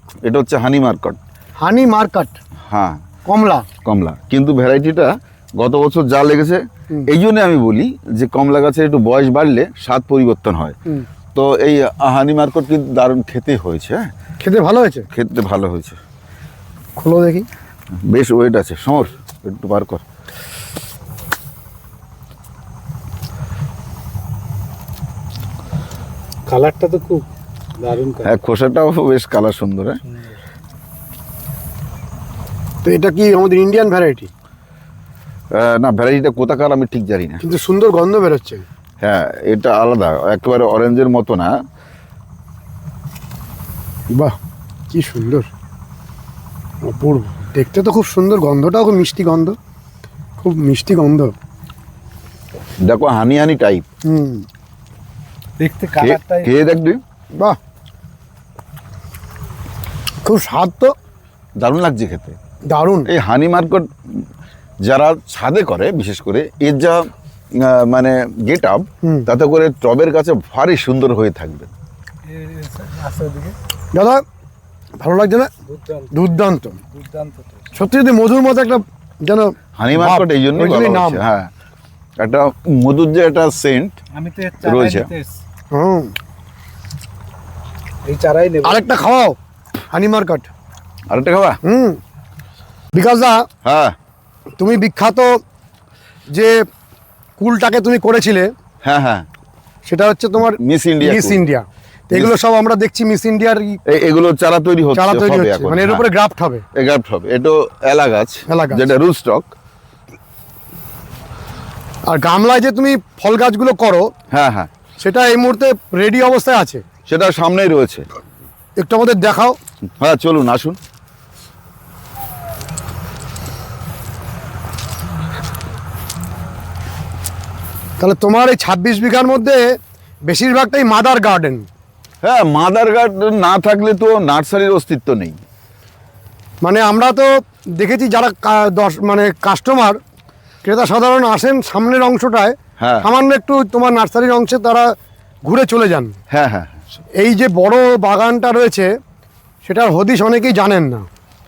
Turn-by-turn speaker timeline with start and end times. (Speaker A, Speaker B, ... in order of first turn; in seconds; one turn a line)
Speaker A: 0.2-1.2
Speaker B: 1.6-2.4
Speaker A: 2.7-3.0
Speaker B: 3.2-3.7
Speaker A: 3.9-10.8
Speaker A: 11.3-14.1
Speaker B: 14.4-15.1
Speaker A: 15.1-16.0
Speaker B: 17.0-17.5
Speaker A: 18.1-20.0
Speaker C: 26.5-27.2
Speaker C: 27.8-28.4
Speaker A: 28.2-30.0
Speaker B: 32.8-34.3
Speaker A: 35.5-37.4
Speaker B: 37.4-38.6
Speaker A: 39.0-41.5
Speaker B: 44.9-45.5
Speaker B: 46.8-49.6
Speaker B: 50.4-51.3
Speaker A: 52.8-53.9
Speaker B: 54.1-54.5
Speaker C: 55.6-56.5
Speaker A: 56.0-57.0
Speaker B: 60.2-60.9
Speaker A: 61.6-62.4
Speaker B: 62.7-63.1
Speaker A: 63.1-63.9
Speaker A: 64.8-71.7
Speaker C: 72.3-73.5
Speaker B: 73.9-74.2
Speaker B: 75.0-75.5
Speaker C: 75.7-76.2
Speaker B: 76.1-76.8
Speaker C: 76.9-77.6
Speaker B: 77.7-81.2
Speaker A: 79.8-81.5
Speaker A: 82.2-84.0
Speaker C: 84.1-85.4
Speaker A: 84.6-85.1
Speaker B: 85.7-86.1
Speaker C: 88.1-88.9
Speaker B: 88.6-89.4
Speaker B: 89.9-90.5
Speaker A: 91.1-91.6
Speaker B: 91.7-92.0
Speaker B: 92.9-93.4
Speaker A: 93.6-94.0
Speaker B: 94.6-95.3
Speaker B: 97.4-98.5
Speaker A: 98.8-99.3
Speaker B: 99.9-103.8
Speaker A: 100.6-101.4
Speaker A: 103.9-106.1
Speaker B: 104.9-106.6
Speaker A: 106.8-109.5
Speaker B: 108.5-108.9
Speaker B: 112.1-114.0
Speaker A: 114.3-114.7
Speaker B: 115.0-116.8
Speaker A: 117.1-118.0
Speaker B: 118.8-119.6
Speaker A: 120.0-120.8
Speaker B: 128.0-129.7
Speaker B: 130.3-131.7
Speaker A: 132.2-135.4
Speaker B: 136.6-140.0
Speaker B: 140.6-144.9
Speaker A: 142.8-143.1
Speaker B: 145.4-146.2
Speaker A: 146.3-146.8
Speaker B: 147.2-148.9
Speaker B: 149.6-151.1